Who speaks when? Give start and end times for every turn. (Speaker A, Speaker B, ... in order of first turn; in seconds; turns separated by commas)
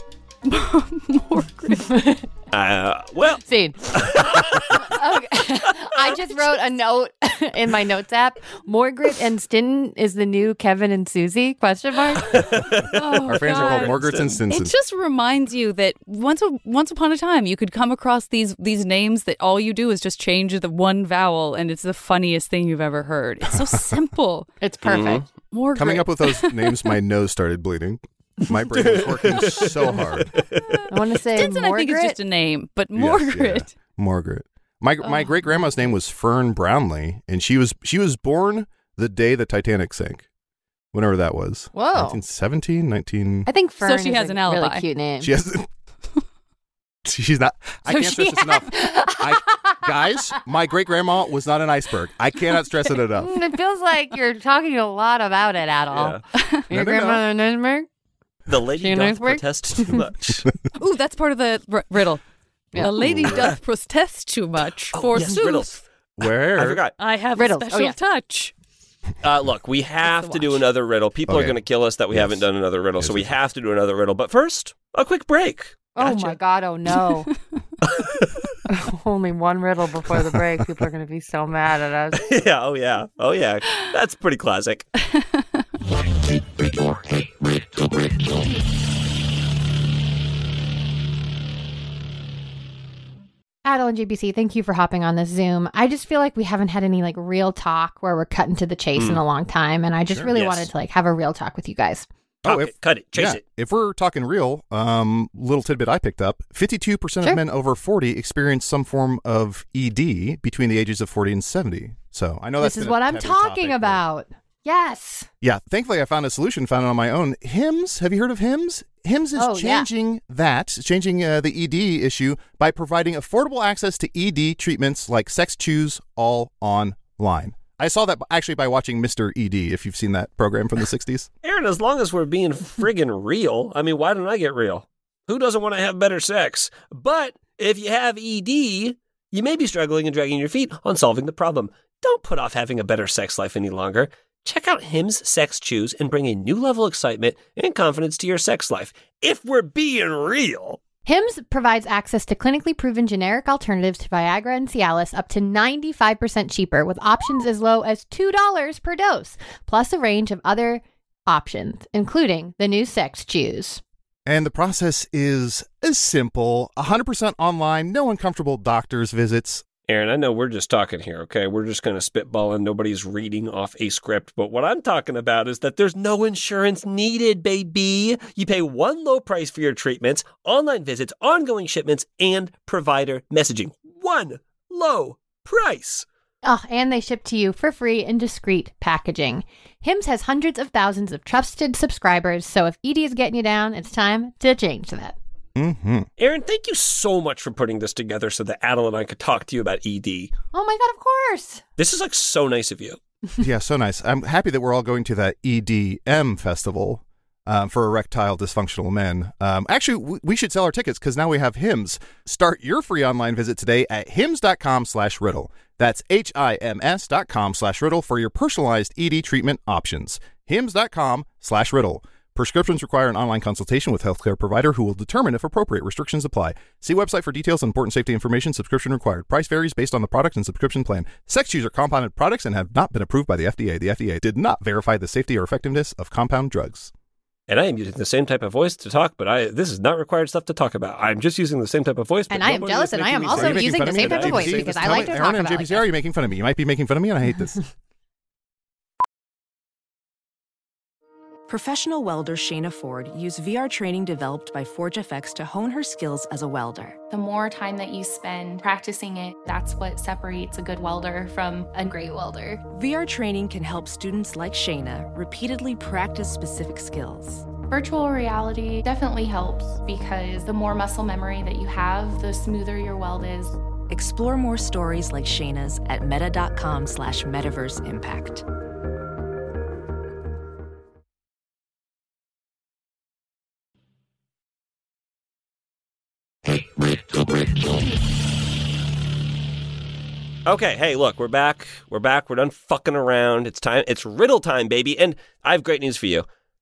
Speaker A: 0.5-1.9, Speaker B: 1.8-2.2, Speaker C: 2.5-5.0, Speaker B: 3.4-12.4, Speaker C: 6.0-6.4, Speaker C: 12.2-14.4, Speaker A: 12.9-24.5, Speaker D: 13.2-14.7, Speaker B: 24.6-25.2, Speaker C: 24.8-25.2, Speaker A: 25.5-26.7, Speaker D: 25.7-30.3, Speaker C: 28.8-30.8, Speaker B: 30.9-32.2, Speaker A: 31.3-33.7, Speaker D: 32.9-40.2, Speaker D: 40.9-43.5, Speaker B: 41.7-42.2, Speaker B: 43.5-45.3, Speaker A: 43.8-44.8, Speaker D: 45.2-45.7, Speaker D: 47.0-53.3, Speaker B: 47.9-49.8, Speaker B: 53.1-57.9, Speaker C: 55.9-56.2, Speaker A: 56.3-56.6, Speaker D: 56.7-57.2, Speaker C: 58.5-60.5, Speaker B: 58.8-60.1, Speaker A: 60.8-62.2, Speaker D: 62.7-63.5, Speaker A: 62.7-65.8, Speaker C: 64.9-65.8, Speaker D: 66.2-66.8, Speaker C: 66.5-66.9, Speaker A: 67.0-68.5, Speaker B: 67.3-67.9, Speaker C: 69.2-76.4, Speaker A: 70.0-70.6, Speaker D: 71.3-71.6, Speaker D: 72.1-72.4, Speaker D: 73.0-73.3, Speaker B: 76.0-77.3, Speaker C: 77.8-78.3, Speaker B: 78.7-82.3, Speaker C: 82.1-84.9, Speaker A: 85.1-85.6, Speaker B: 93.6-102.1, Speaker C: 99.0-99.2, Speaker C: 100.3-100.7, Speaker C: 102.4-103.4, Speaker D: 102.4-114.0, Speaker B: 112.6-115.3, Speaker D: 115.4-131.3, Speaker B: 119.3-119.9, Speaker C: 131.4-150.8, Speaker B: 151.1-163.8, Speaker D: 164.2-169.6, Speaker C: 169.9-186.1, Speaker B: 186.4-195.2, Speaker D: 195.5-196.1, Speaker C: 196.2-200.3, Speaker B: 200.5-201.6, Speaker C: 201.8-203.0, Speaker D: 203.4-236.9, Speaker C: 237.5-245.2, Speaker B: 242.3-245.8, Speaker D: 243.3-247.6, Speaker E: 251.5-257.0, Speaker F: 257.1-262.6, Speaker E: 262.7-267.5, Speaker F: 267.7-273.6, Speaker E: 273.9-278.4, Speaker C: 290.4-296.2